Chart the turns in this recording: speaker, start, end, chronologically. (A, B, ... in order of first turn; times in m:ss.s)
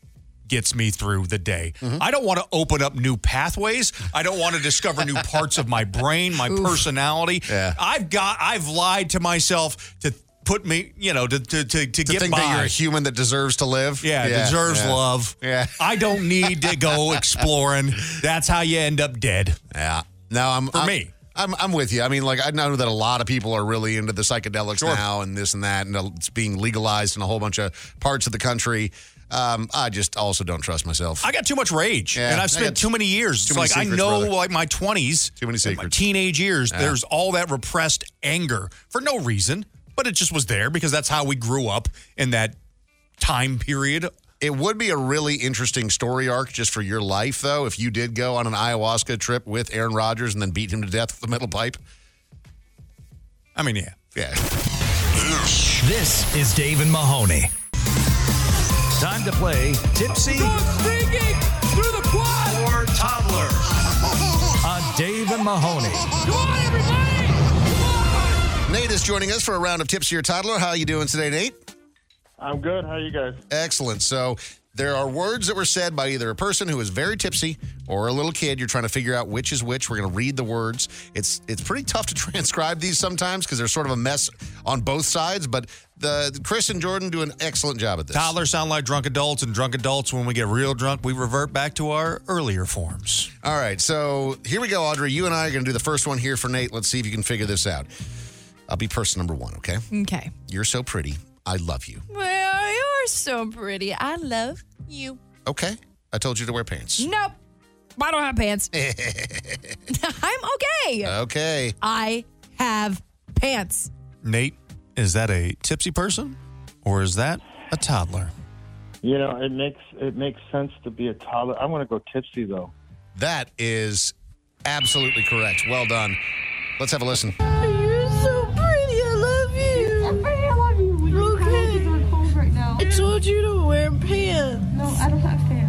0:00.5-0:12.8 A
0:06.5-0:06.8 B
0:07.5-0:07.8 C
0:12.0-0:17.2 C
0:14.0-0:19.6 A
0:19.7-0:31.3 C
0:20.7-0:21.1 A
0:31.2-0:42.6 A
0:32.1-0:32.9 C
0:33.4-0:34.3 C
0:35.4-0:36.0 C
0:36.7-0:37.0 C
0:43.2-0:44.1 A
0:44.4-0:51.8 C
0:53.6-0:54.0 A
0:54.1-0:54.4 C
0:55.5-0:57.5 D
0:59.0-1:00.6 D
1:00.3-1:02.6 A
1:02.5-1:03.6 D
1:04.6-1:06.1 D
1:06.3-1:07.1 A
1:08.7-1:11.6 C
1:12.6-1:13.2 E
1:13.5-1:28.3 C
1:28.1-1:33.3 A
1:33.4-1:37.9 C
1:38.7-1:39.8 C
1:39.9-1:40.3 B
1:40.5-1:42.0 C
1:42.1-1:45.2 B
1:45.4-1:47.1 C
1:47.0-1:47.4 B
1:48.0-1:48.7 B
1:48.7-1:49.8 C
1:49.9-1:51.1 B
1:51.0-1:51.8 C
1:51.8-1:53.9 B
1:54.2-1:58.3 A
1:59.0-2:02.7 E
2:03.2-2:06.2 C
2:06.8-2:07.3 C
2:07.6-2:12.1 F
2:12.7-2:14.9 F